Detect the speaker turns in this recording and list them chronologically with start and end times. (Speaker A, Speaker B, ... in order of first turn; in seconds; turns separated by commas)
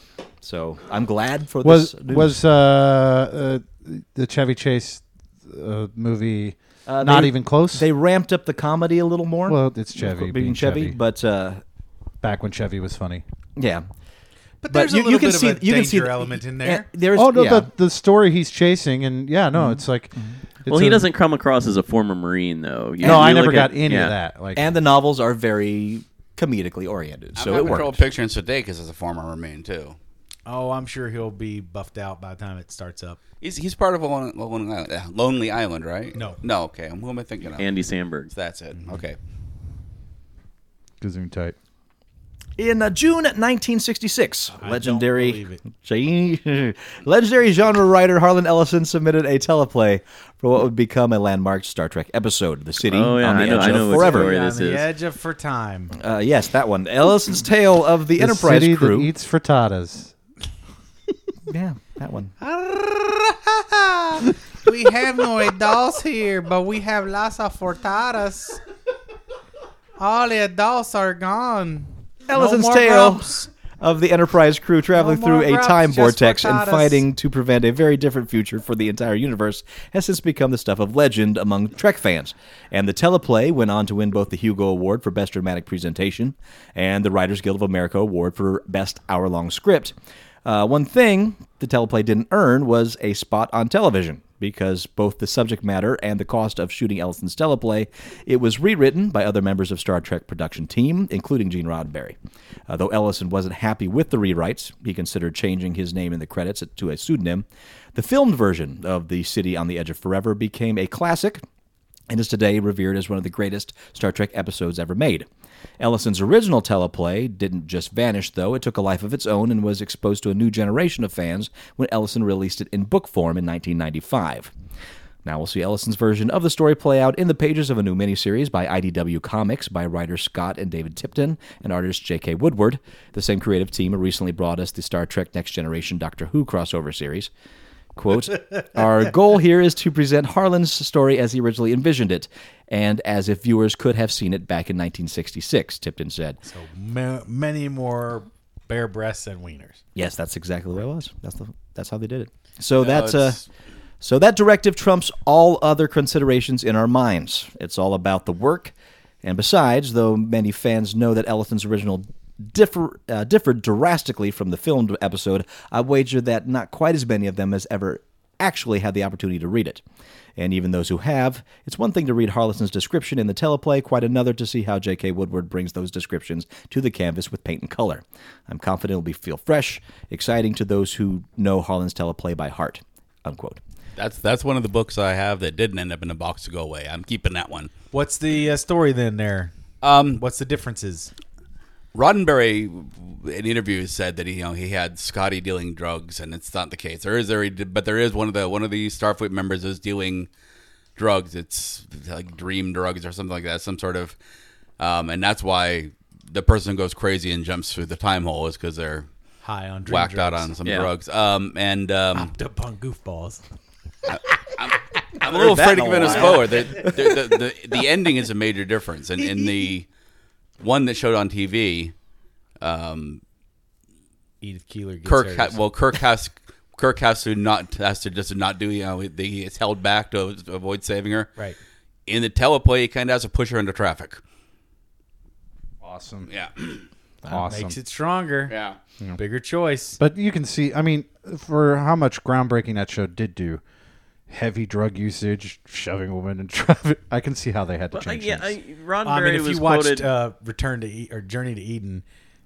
Speaker A: 0.4-2.4, Speaker B: 1.6-7.9, Speaker A: 6.9-11.6, Speaker B: 9.5-11.0, Speaker B: 12.2-13.2, Speaker A: 13.6-13.8, Speaker C: 14.6-16.9, Speaker A: 14.7-17.7, Speaker B: 17.1-21.1, Speaker A: 19.5-20.4, Speaker D: 20.7-24.1, Speaker A: 23.0-23.7, Speaker B: 23.0-24.7, Speaker A: 24.6-28.0, Speaker E: 27.4-30.0, Speaker C: 30.5-33.2, Speaker E: 33.4-37.7, Speaker D: 37.6-38.3, Speaker E: 38.2-39.2, Speaker B: 41.0-41.6, Speaker A: 42.6-54.3, Speaker C: 44.6-45.6, Speaker D: 52.9-54.9, Speaker C: 53.3-55.9, Speaker A: 55.9-59.1, Speaker B: 58.2-60.1, Speaker A: 61.5-62.3, Speaker C: 62.4-68.6, Speaker C: 70.0-73.5, Speaker A: 72.3-89.9, Speaker C: 74.9-77.0, Speaker A: 90.5-102.2, Speaker A: 102.7-111.4, Speaker A: 112.1-115.3, Speaker A: 115.8-124.5, Speaker A: 125.2-137.3, Speaker A: 138.0-146.4, Speaker C: 146.4-149.8, Speaker A: 149.9-153.4, Speaker E: 152.8-153.4, Speaker A: 154.0-169.8, Speaker A: 170.4-183.6, Speaker E: 184.0-187.7, Speaker C: 187.9-189.5, Speaker E: 189.8-190.2, Speaker C: 190.1-191.1, Speaker E: 191.9-200.3, Speaker E: 201.0-204.2, Speaker E: 204.8-209.1, Speaker C: 209.4-210.5, Speaker E: 209.9-212.3, Speaker D: 210.7-210.9, Speaker C: 212.1-213.4, Speaker E: 214.1-219.9, Speaker A: 215.2-217.1, Speaker C: 215.4-216.9, Speaker E: 220.6-221.9, Speaker E: 222.6-223.2, Speaker C: 224.4-225.6, Speaker E: 225.1-231.3, Speaker E: 232.1-234.2, Speaker B: 235.8-236.3, Speaker E: 236.3-236.8, Speaker B: 237.3-237.8, Speaker C: 237.5-238.6, Speaker E: 238.5-238.8, Speaker C: 239.2-240.0, Speaker B: 240.0-243.6, Speaker B: 244.3-248.6, Speaker D: 247.9-250.1, Speaker C: 249.0-252.0